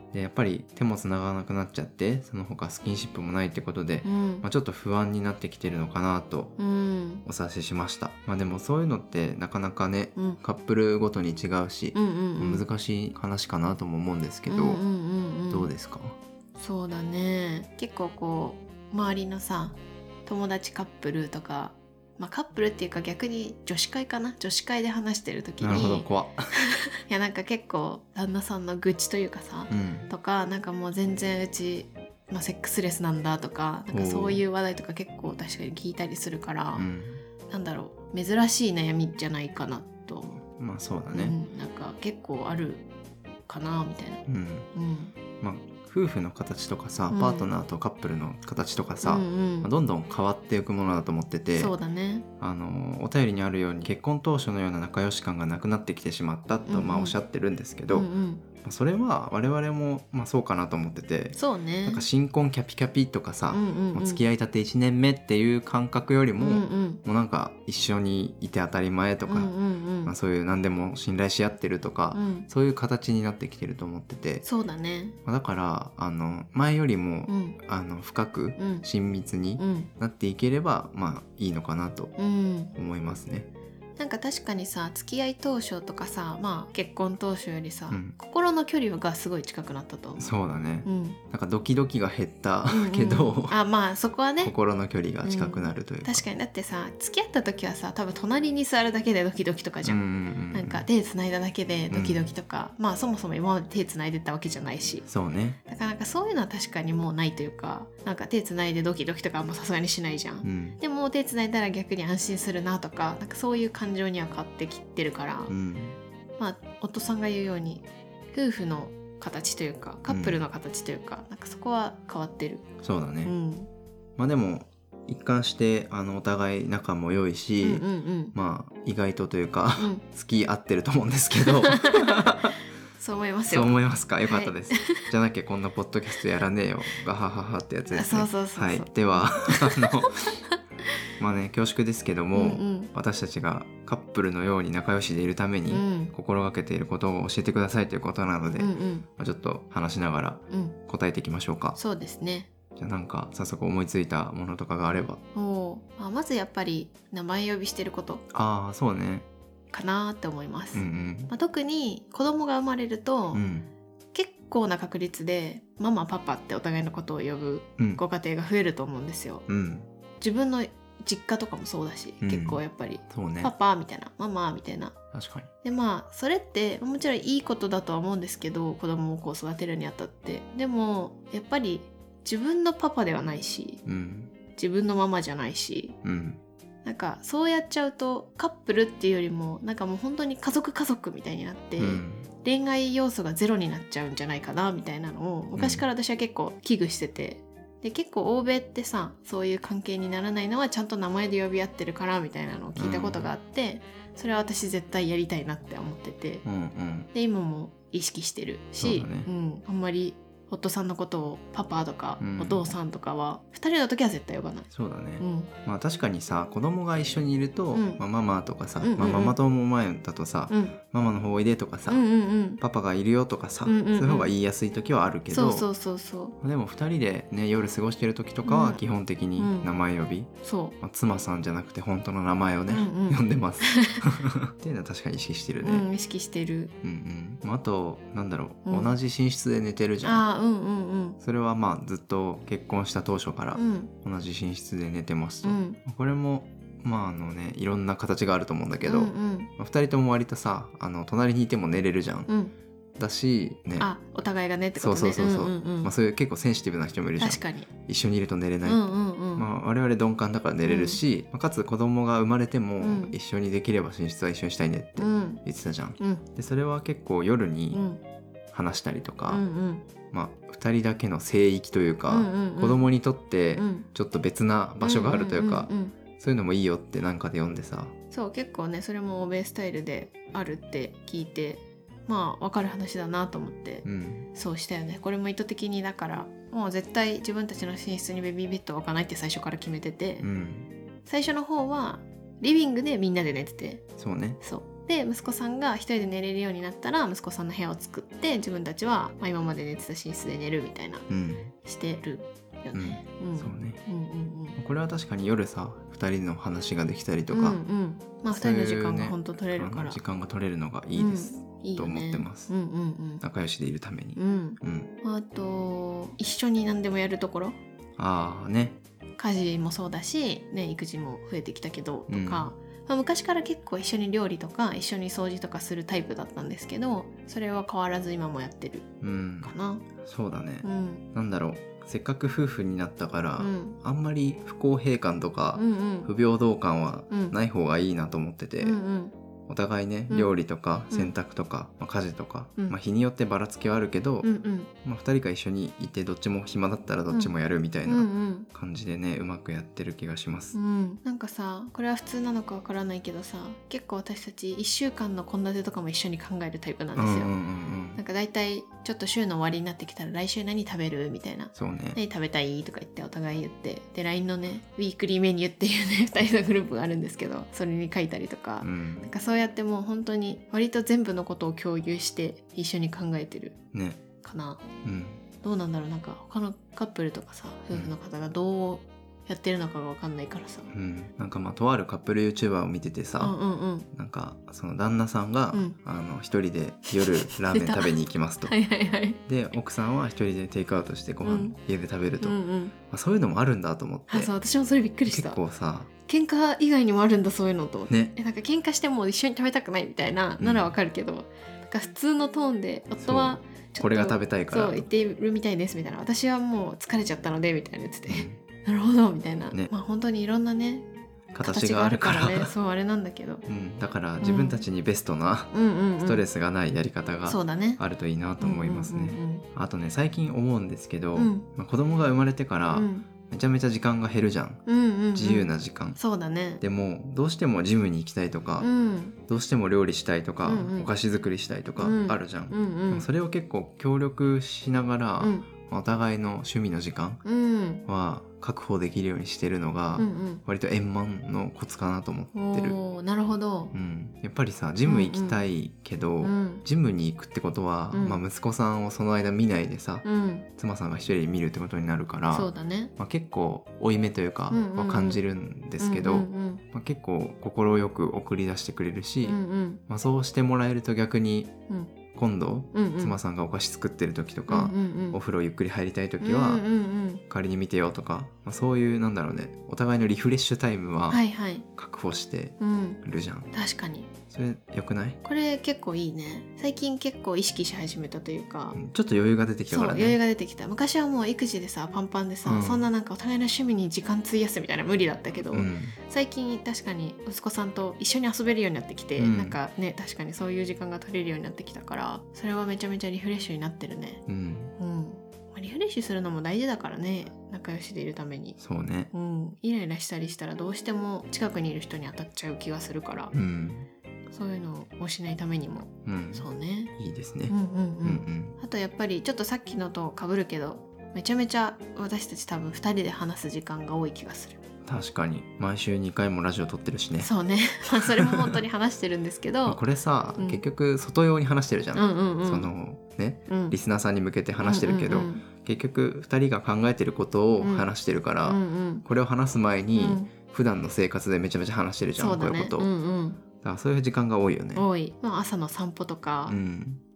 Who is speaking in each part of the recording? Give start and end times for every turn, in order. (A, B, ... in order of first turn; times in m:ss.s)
0:00.1-0:06.6 A
0:04.0-0:04.4 B
0:06.6-0:07.2 B
0:07.2-0:14.8 A
0:11.9-0:12.6 B
0:14.5-0:15.7 B
0:15.5-0:16.2 A
0:16.6-0:36.9 B
0:25.6-0:26.5 A
0:29.7-0:30.1 A
0:33.9-0:34.4 A
0:36.8-0:37.2 A
0:37.5-0:40.4 B
0:40.6-0:41.4 A
0:41.1-0:42.8 B
0:43.5-0:45.1 B
0:44.2-0:44.7 A
0:45.4-0:51.7 A
0:47.1-0:47.5 B
0:49.0-0:49.7 B
0:51.5-0:52.2 B
0:52.4-0:58.1 A
0:56.7-0:57.2 B
0:57.9-0:58.4 B
0:58.6-1:09.5 A
1:01.3-1:02.0 B
1:03.5-1:04.2 B
1:06.4-1:07.0 B
1:09.2-1:10.1 B
1:10.0-1:14.4 A
1:12.1-1:12.5 B
1:14.4-1:15.2 B
1:15.2-1:22.1 A
1:17.3-1:17.6 B
1:18.6-1:18.8 B
1:19.6-1:19.9 B
1:22.2-1:22.7 B
1:22.7-1:23.5 A
1:24.0-1:30.3 B
1:27.9-1:28.1 A
1:30.2-1:33.6 A
1:30.8-1:31.2 B
1:32.7-1:34.5 B
1:34.4-1:36.2 A
1:35.2-1:40.0 B
1:39.8-1:40.8 A
1:40.5-1:45.0 B
1:41.9-1:42.3 A
1:45.0-1:45.6 A
1:45.7-1:55.5 B
1:50.4-1:50.8 A
1:55.5-1:56.0 A
1:56.4-2:02.6 B
2:00.1-2:00.4 A
2:02.8-2:03.3 A
2:03.2-2:03.7 B
2:04.2-2:12.5 A
2:07.6-2:08.3 B
2:09.8-2:10.0 B
2:11.6-2:12.3 B
2:13.0-2:15.1 B
2:13.5-2:20.4 A
2:17.9-2:20.6 B
2:21.2-2:31.8 A
2:22.3-2:22.9 B
2:25.7-2:26.1 B
2:28.6-2:29.0 B
2:30.5-2:30.8 B
2:31.8-2:32.5 B
2:32.8-2:35.2 A
2:35.3-2:38.2 B
2:38.3-2:39.2 A
2:39.7-2:43.4 B
2:40.7-2:41.3 A
2:43.3-2:43.7 A
2:44.1-2:49.4 B
2:49.5-2:49.9 A
2:50.2-2:55.0 B
2:52.2-2:53.5 A
2:55.1-2:55.5 A
2:55.6-3:03.8 B
3:03.8-3:04.3 A
3:04.5-3:06.0 B
3:06.0-3:06.4 A
3:06.8-3:26.4 B
3:11.8-3:12.3 A
3:15.6-3:15.8 A
3:22.8-3:23.3 A
3:26.4-3:27.1 A
3:27.1-3:35.5 B
3:28.8-3:29.3 A
3:32.2-3:32.7 A
3:34.7-3:42.0 A
3:37.7-3:38.0 B
3:38.8-3:39.4 B
3:40.5-3:40.8 B
3:41.9-3:42.6 B
3:42.6-3:45.7 A
3:43.6-3:44.3 B
3:45.3-3:46.4 B
3:46.4-3:55.8 A
3:48.4-3:48.8 B
3:49.4-3:49.7 B
3:50.4-3:50.8 B
3:52.7-3:54.0 B
3:55.6-3:56.7 B
3:56.8-4:00.2 A
3:58.6-3:59.0 B
4:00.0-4:01.2 B
4:01.2-4:12.3 A
4:03.5-4:03.9 B
4:05.4-4:05.8 B
4:08.8-4:09.5 B
4:12.3-4:12.5 B
4:13.0-4:13.9 A
4:13.8-4:15.9 B
4:14.8-4:27.8 A
4:17.2-4:17.7 B
4:18.6-4:19.5 B
4:20.6-4:21.0 B
4:22.8-4:23.1 B
4:25.0-4:25.4 B
4:26.0-4:26.2 B
4:27.7-4:28.0 B
4:28.5-4:29.4 A
4:29.3-4:29.8 B
4:30.1-4:37.9 A
4:32.1-4:32.9 B
4:33.5-4:33.9 B
4:34.8-4:35.9 B
4:38.1-4:50.3 B
4:43.8-4:44.3 A
4:50.2-4:50.7 A
4:51.0-4:53.8 B
4:54.0-4:54.4 A
4:54.4-5:01.1 B
5:01.1-5:01.5 A
5:01.6-5:04.6 B
5:02.7-5:03.8 A
5:04.6-5:07.6 A
5:07.3-5:10.0 B
5:08.3-5:12.5 A
5:11.0-5:13.2 B
5:13.2-5:14.9 A
5:14.2-5:17.6 B
5:18.0-5:18.8 A
5:19.2-5:28.9 B
5:22.1-5:22.5 A
5:29.0-5:38.8 A
5:29.4-5:29.8 B
5:30.6-5:31.0 B
5:33.4-5:33.8 B
5:35.5-5:36.1 B
5:37.1-5:37.3 B
5:38.6-5:39.1 B
5:39.5-5:44.3 A
5:44.2-5:44.7 B
5:44.8-5:50.5 A
5:47.8-5:48.5 B
5:50.5-5:57.3 B
5:56.9-5:58.0 A
5:58.0-6:13.6 B
6:01.6-6:02.0 A
6:08.6-6:09.1 A
6:13.7-6:14.0 A
6:14.2-6:14.7 B
6:14.8-6:15.2 A
6:15.4-6:20.7 B
6:20.7-6:23.4 A
6:23.2-6:23.9 B
6:23.9-6:28.5 A
6:26.9-6:29.2 B
6:29.3-6:34.3 A
6:31.2-6:31.6 B
6:32.2-6:32.7 B
6:34.1-6:35.4 B
6:35.0-6:35.9 A
6:36.1-6:50.9 B
6:37.9-6:38.1 A
6:40.4-6:40.7 A
6:43.0-6:44.8 A
6:48.1-6:48.4 A
6:51.3-6:52.5 A
6:51.4-6:53.4 B
6:53.4-7:06.0 A
6:54.2-6:54.6 B
6:55.5-6:56.2 B
6:57.2-6:57.8 B
6:58.4-6:59.4 B
7:01.1-7:01.5 B
7:02.7-7:03.0 B
7:04.6-7:06.6 B
7:06.6-7:08.7 A
7:08.6-7:09.2 B
7:09.3-7:17.2 A
7:10.4-7:10.9 B
7:11.8-7:13.1 B
7:15.2-7:15.5 B
7:17.2-7:17.8 B
7:17.8-7:22.8 A
7:20.0-7:20.4 B
7:22.3-7:23.7 B
7:23.7-7:30.0 A
7:24.8-7:25.4 B
7:26.2-7:26.6 B
7:27.9-7:28.2 B
7:30.0-7:30.5 B
7:30.6-7:41.5 A
7:32.3-7:32.9 B
7:34.5-7:35.2 B
7:35.8-7:36.6 B
7:39.2-7:39.8 B
7:42.1-7:46.6 A
7:42.7-7:43.2 B
7:44.5-7:45.2 B
7:46.2-7:47.2 B
7:47.3-7:51.2 A
7:51.1-7:51.6 B
7:51.8-7:53.5 A
7:52.6-7:54.1 B
7:54.3-7:55.2 A
7:55.2-7:58.8 B
7:58.7-8:00.2 A
7:59.7-8:14.2 B
8:02.4-8:02.9 A
8:05.5-8:06.0 A
8:09.2-8:09.6 A
8:14.3-8:14.7 A
8:14.8-8:18.6 B
8:18.6-8:19.1 A
8:19.1-8:23.3 B
8:23.3-8:23.9 A
8:24.3-8:26.9 B
8:26.0-8:28.6 A
8:27.5-8:34.6 B
8:34.8-8:37.3 A
8:37.2-8:39.8 B
8:38.0-8:38.6 A
8:39.6-8:52.9 A
8:41.9-8:42.7 B
8:43.5-8:43.8 B
8:44.6-8:45.4 B
8:47.6-8:47.9 B
8:48.4-8:49.0 B
8:50.0-8:50.3 B
8:52.2-8:53.4 B
8:53.6-8:54.9 A
8:54.7-8:56.6 B
8:56.5-8:57.0 A